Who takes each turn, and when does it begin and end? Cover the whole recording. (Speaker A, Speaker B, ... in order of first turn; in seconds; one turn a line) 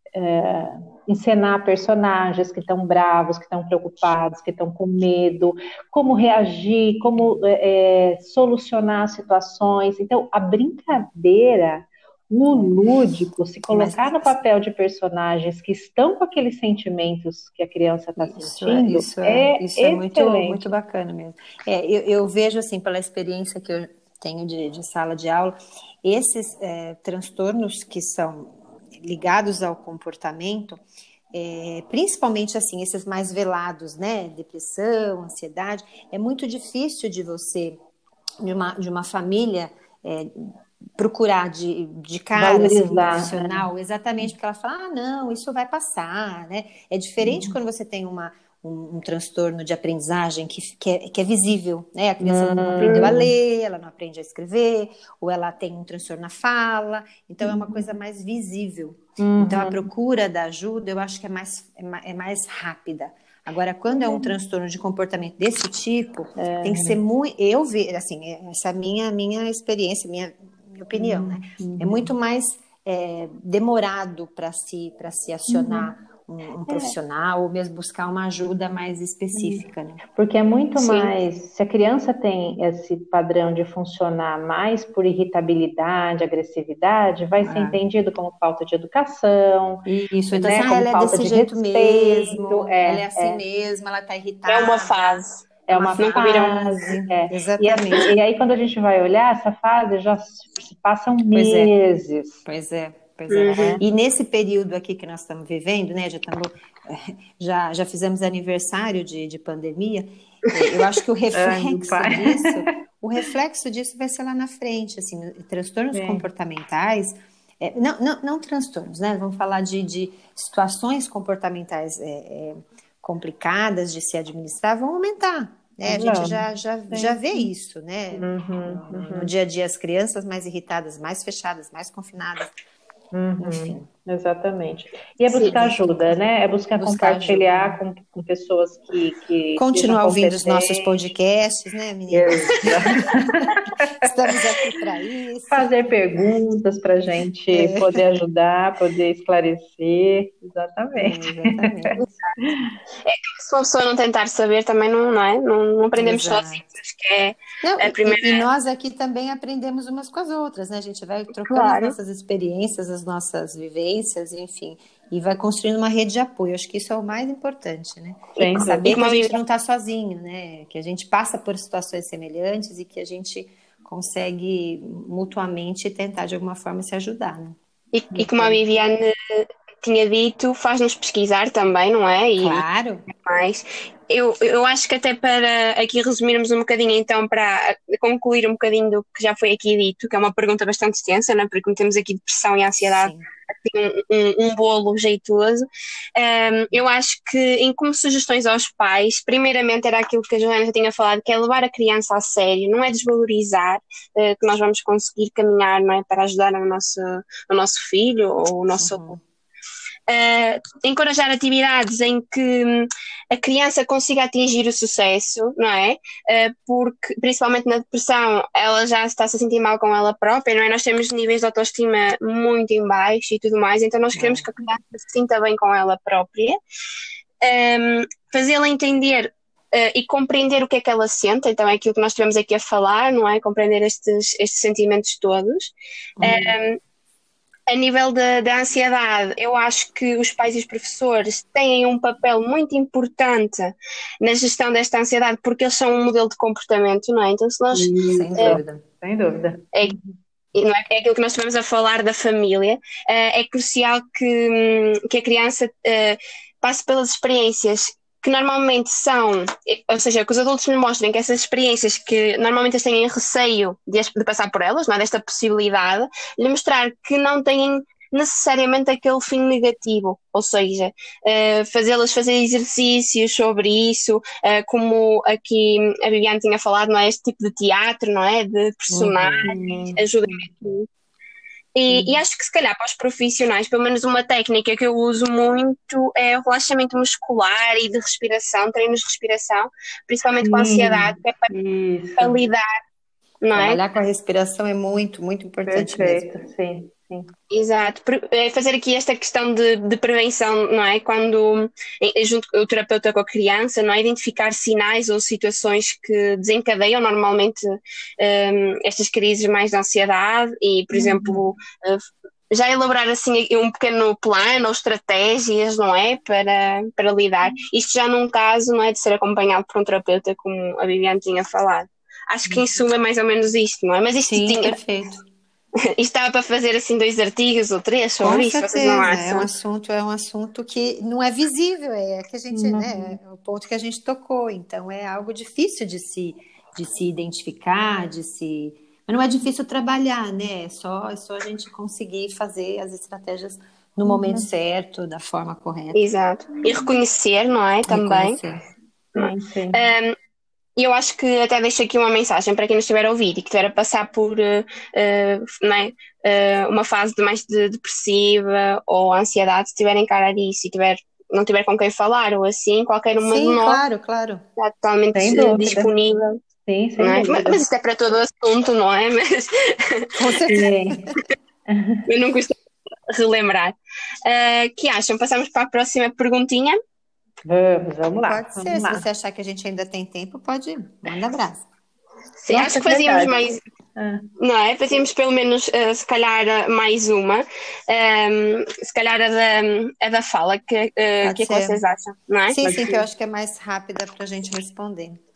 Speaker A: 0.1-20.6
Speaker B: 12.5-12.8
Speaker B: 13.7-14.4
Speaker B: 18.2-30.8
Speaker B: 31.3-37.8
Speaker B: 38.4-80.0
Speaker A: 42.4-43.6
Speaker A: 47.2-47.5
Speaker A: 52.2-53.3
Speaker C: 52.8-53.1
Speaker A: 57.4-57.9
Speaker A: 59.2-59.9
Speaker A: 63.9-64.3
Speaker A: 66.4-67.0
Speaker A: 70.9-72.1
Speaker A: 75.5-75.9
Speaker A: 76.7-76.9
Speaker A: 79.3-79.6
Speaker A: 80.1-93.4
Speaker B: 80.8-81.1
Speaker B: 87.4-87.8
Speaker B: 89.9-95.2
Speaker C: 94.5-96.6
Speaker A: 95.7-102.4
Speaker B: 95.7-98.1
Speaker B: 101.3-101.7
Speaker B: 102.5-132.5
Speaker C: 103.3-103.7
Speaker A: 103.5-103.8
Speaker A: 111.3-112.6
Speaker A: 115.9-116.2
Speaker A: 125.9-127.5
Speaker A: 128.1-129.3
Speaker A: 133.1-141.1
Speaker B: 133.4-133.9
Speaker B: 135.3-136.2
Speaker B: 136.8-137.8
Speaker B: 139.6-143.0
Speaker A: 142.1-144.1
Speaker B: 144.0-145.7
Speaker A: 145.5-152.7
Speaker B: 147.5-148.0
Speaker B: 151.0-152.1
Speaker C: 153.0-158.4
Speaker B: 156.0-156.6
Speaker B: 157.6-177.6
Speaker C: 161.4-161.9
Speaker A: 168.4-168.9
Speaker C: 168.8-169.4
Speaker C: 177.9-209.2
Speaker A: 178.1-178.6
Speaker B: 182.4-183.0
Speaker B: 192.8-193.3
Speaker B: 208.8-209.2
Speaker C: 210.1-226.6
Speaker B: 224.1-224.4
Speaker C: 227.4-236.8
Speaker B: 236.2-236.5
Speaker C: 237.7-248.6
Speaker A: 247.7-250.2
Speaker B: 248.1-248.8
Speaker C: 250.5-280.9
Speaker B: 278.9-280.0
Speaker A: 279.4-280.0
Speaker C: 281.8-291.5
Speaker A: 290.4-292.4
Speaker C: 292.2-292.8
Speaker C: 293.4-293.8
Speaker B: 293.5-296.3
Speaker A: 295.6-297.3
Speaker C: 297.5-324.8
Speaker A: 310.9-311.4
Speaker B: 324.3-325.2
Speaker C: 325.9-329.5
Speaker B: 328.2-346.0
Speaker A: 332.5-333.2
Speaker A: 344.1-344.5
Speaker C: 345.9-348.4
Speaker B: 347.9-348.6
Speaker A: 349.1-349.8
Speaker C: 349.1-350.1
Speaker C: 350.8-363.8
Speaker B: 363.2-364.4
Speaker C: 364.6-366.4
Speaker A: 365.1-365.9
Speaker A: 366.6-367.6
Speaker C: 367.0-370.1
Speaker B: 370.2-371.2
Speaker A: 370.5-371.0
Speaker A: 371.7-372.1
Speaker C: 372.1-372.6
Speaker C: 373.1-373.7
Speaker C: 374.2-376.8
Speaker A: 377.4-379.1
Speaker B: 378.1-381.6
Speaker C: 382.4-383.6
Speaker A: 382.5-383.3
Speaker A: 383.9-384.2
Speaker C: 384.4-392.6
Speaker B: 391.2-391.8
Speaker B: 392.5-395.2
Speaker A: 392.6-393.0